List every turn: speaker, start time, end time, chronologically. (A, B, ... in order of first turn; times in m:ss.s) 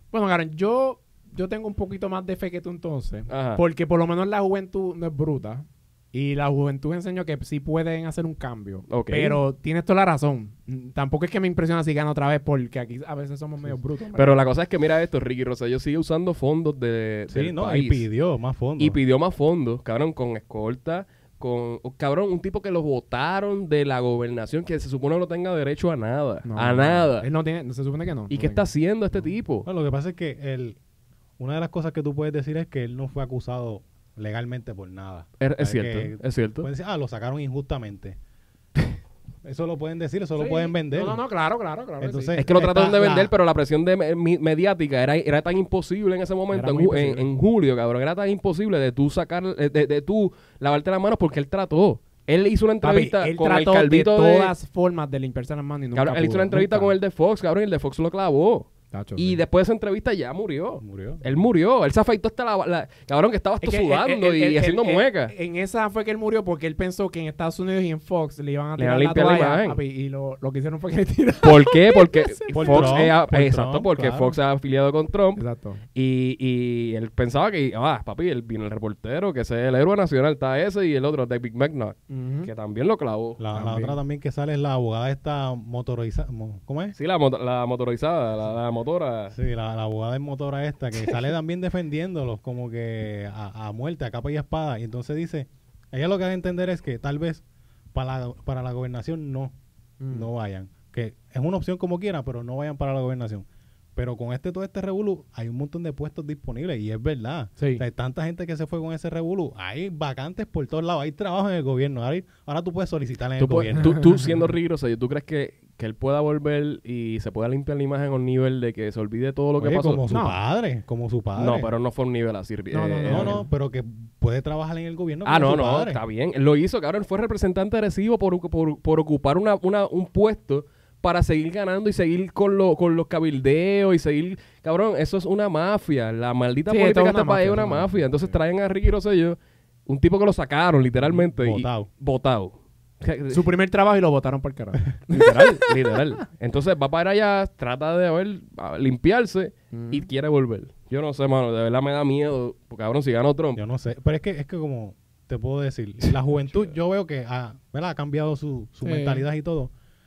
0:00.1-0:14.4 A
0:03.3-0:03.6 B
0:08.9-0:09.4 B
0:14.1-0:18.0 B
0:17.3-0:19.0 C
0:18.8-0:27.3 B
0:26.4-0:28.7 A
0:28.3-0:29.6 B
0:29.1-0:30.8 C
0:31.4-0:38.2 C
0:35.4-0:36.7 B
0:39.4-0:41.2 C
0:40.4-0:42.4 A
0:42.0-0:43.3 C
0:42.4-0:54.5 B
0:46.5-0:47.2 A
0:52.8-0:56.9 A
0:55.9-1:05.3 B
0:58.9-0:59.4 A
1:00.8-1:01.2 C
1:03.6-1:13.0 A
1:08.8-1:09.8 B
1:11.4-1:15.4 B
1:12.5-1:14.4 C
1:15.4-1:15.8 A
1:15.9-1:23.4 B
1:22.1-1:22.5 A
1:23.4-1:26.9 C
1:23.5-1:24.0 A
1:26.9-1:29.3 B
1:29.3-1:37.4 C
1:37.9-1:39.5 C
1:40.0-1:40.3 A
1:40.1-1:54.0 C
1:47.6-1:47.8 A
1:53.4-2:00.0 B
1:59.6-2:01.7 C
2:00.1-2:00.4 A
2:01.4-2:03.4 B
2:02.7-2:03.5 A
2:03.0-2:06.0 C
2:05.2-2:23.5 B
2:16.7-2:18.0 A
2:21.1-2:21.9 C
2:23.3-2:25.8 A
2:25.1-2:33.6 B
2:29.7-2:30.1 A
2:33.5-2:39.7 C
2:36.0-2:36.6 B
2:38.8-2:39.2 A